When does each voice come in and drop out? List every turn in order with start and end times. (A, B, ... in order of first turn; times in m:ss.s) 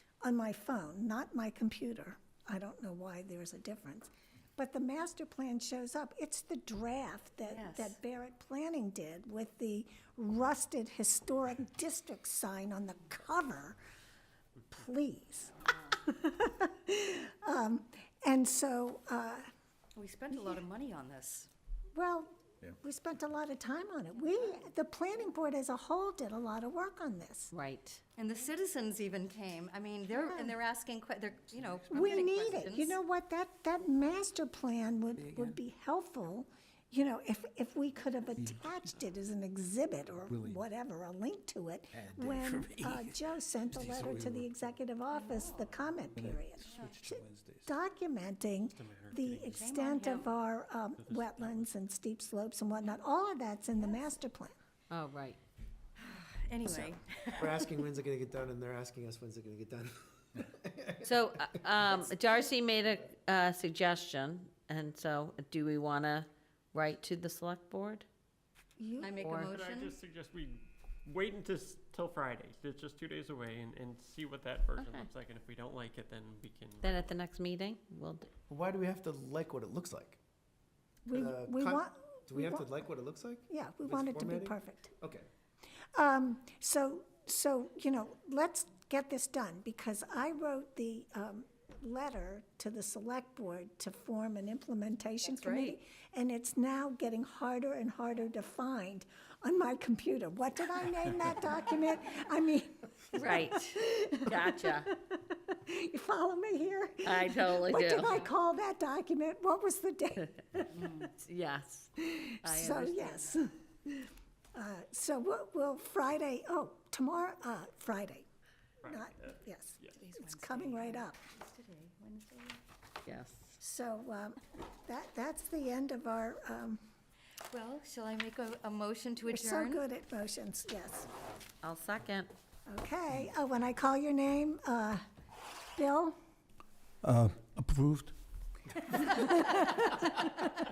0:00.2-0:13.8 A
0:07.4-0:08.0 B
0:14.7-0:19.5 A
0:20.0-0:21.5 B
0:21.9-0:27.5 A
0:24.2-0:24.6 B
0:27.5-0:28.0 C
0:28.2-0:33.0 B
0:30.3-0:30.5 A
0:31.9-0:54.5 A
0:38.4-0:38.8 D
0:40.3-0:40.6 D
0:42.0-0:42.4 E
0:42.3-0:44.2 D
0:45.1-0:45.7 B
0:46.0-0:47.7 D
0:46.7-0:46.9 B
0:48.7-0:49.6 F
0:49.5-0:50.3 B
0:51.0-0:51.8 F
0:54.9-0:55.4 C
0:56.0-0:57.8 B
0:56.6-1:02.1 E
1:01.0-1:08.1 C
1:08.8-1:09.2 A
1:09.0-1:10.0 B
1:09.2-1:09.5 C
1:09.5-1:17.1 F
1:14.8-1:15.1 C
1:16.8-1:18.3 C
1:18.5-1:20.2 E
1:21.1-1:22.7 A
1:21.1-1:25.3 E
1:23.5-1:24.9 A
1:26.0-1:50.9 A
1:35.2-1:35.8 B
1:43.1-1:44.9 C
1:47.0-1:48.3 C
1:50.7-1:51.1 B
1:51.1-1:53.4 C
1:52.0-1:58.3 A
1:58.8-2:00.0 F
1:58.9-2:01.2 A
2:00.0-2:02.6 B
2:03.1-2:03.5 C
2:03.6-2:06.8 A
2:07.5-2:09.8 B
2:09.3-2:11.1 A
2:11.6-2:12.3 C
2:12.7-2:15.0 A
2:15.8-2:16.2 A
2:17.0-2:18.1 D
2:19.0-2:19.8 A
2:19.3-2:19.8 C